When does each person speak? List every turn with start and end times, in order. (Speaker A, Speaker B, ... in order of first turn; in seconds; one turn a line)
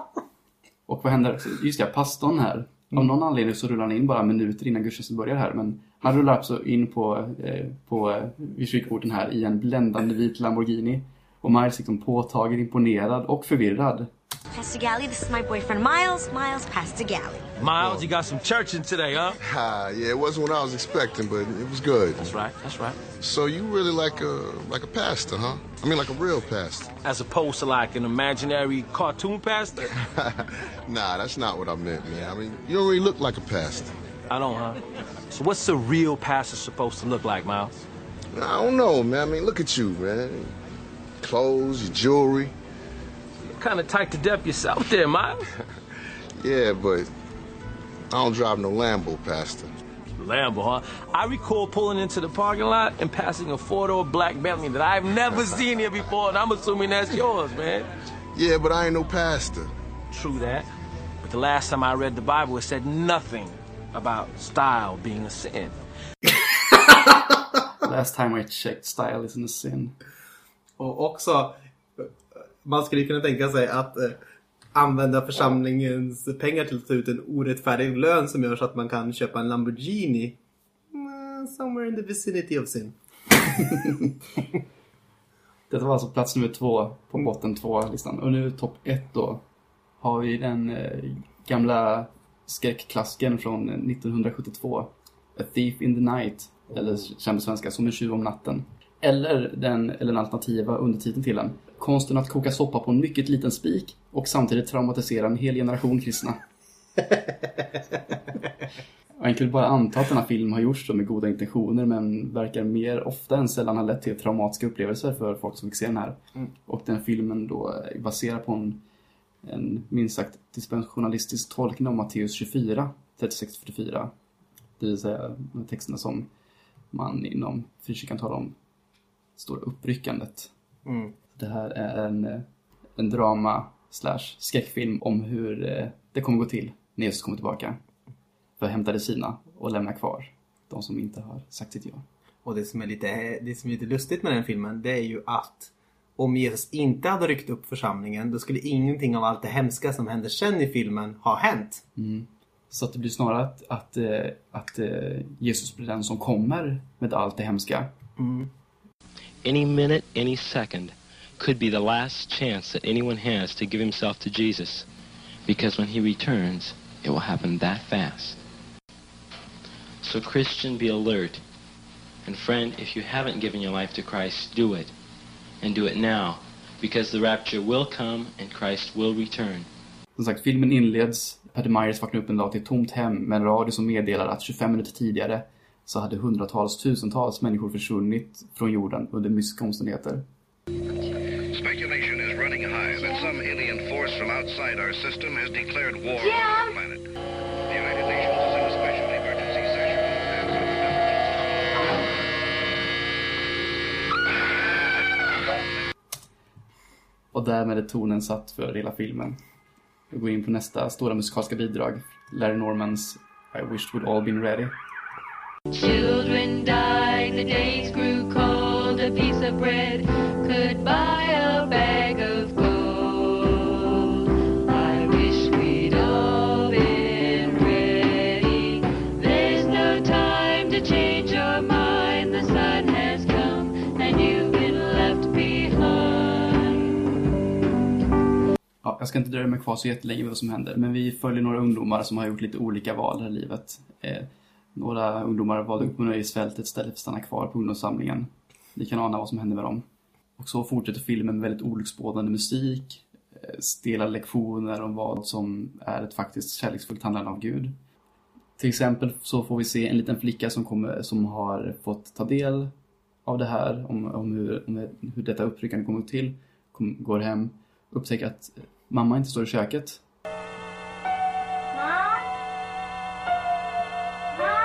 Speaker A: 0.9-14.1
Speaker B: 14.5-17.5
Speaker C: 17.6-19.4
Speaker D: 19.4-22.2
Speaker C: 22.2-23.0
Speaker D: 23.2-26.9
Speaker C: 27.0-29.8
Speaker D: 30.1-33.9
Speaker C: 34.3-34.8
Speaker C: 35.3-37.7
Speaker D: 38.3-40.5
Speaker D: 41.2-42.5
Speaker C: 43.5-45.5
Speaker D: 46.4-47.1
Speaker D: 48.1-49.7
Speaker C: 50.2-57.9
Speaker D: 58.3-59.7
Speaker C: 60.1-60.7
Speaker C: 61.2-65.8
Speaker A: 67.8-69.9
Speaker E: 70.8-72.1
Speaker E: 72.6-74.2
Speaker E: 74.7-80.4
Speaker E: 80.9-84.1
Speaker A: 85.7-89.4
Speaker A: 90.0-106.4
Speaker A: 109.2-118.8
Speaker A: 119.4-124.1
Speaker A: 124.8-126.3
Speaker A: 126.9-128.6
Speaker A: 129.4-130.5
Speaker E: 130.8-131.1
Speaker A: 131.3-132.4
Speaker A: 133.0-137.8
Speaker A: 138.6-142.0
Speaker E: 142.4-151.8
Speaker A: 151.9-157.9
Speaker E: 158.2-158.5
Speaker F: 159.4-164.9
Speaker F: 165.4-168.4
Speaker F: 170.0-171.4
Speaker F: 172.2-174.9
Speaker F: 175.6-179.7
Speaker A: 180.2-190.2
Speaker G: 191.5-197.0
Speaker G: 197.7-201.4
Speaker A: 207.3-209.4
Speaker A: 210.1-214.7
Speaker H: 215.7-236.9
Speaker A: 238.8-249.8
Speaker A: 250.4-257.8
Speaker A: 258.6-262.7
Speaker A: 263.2-270.0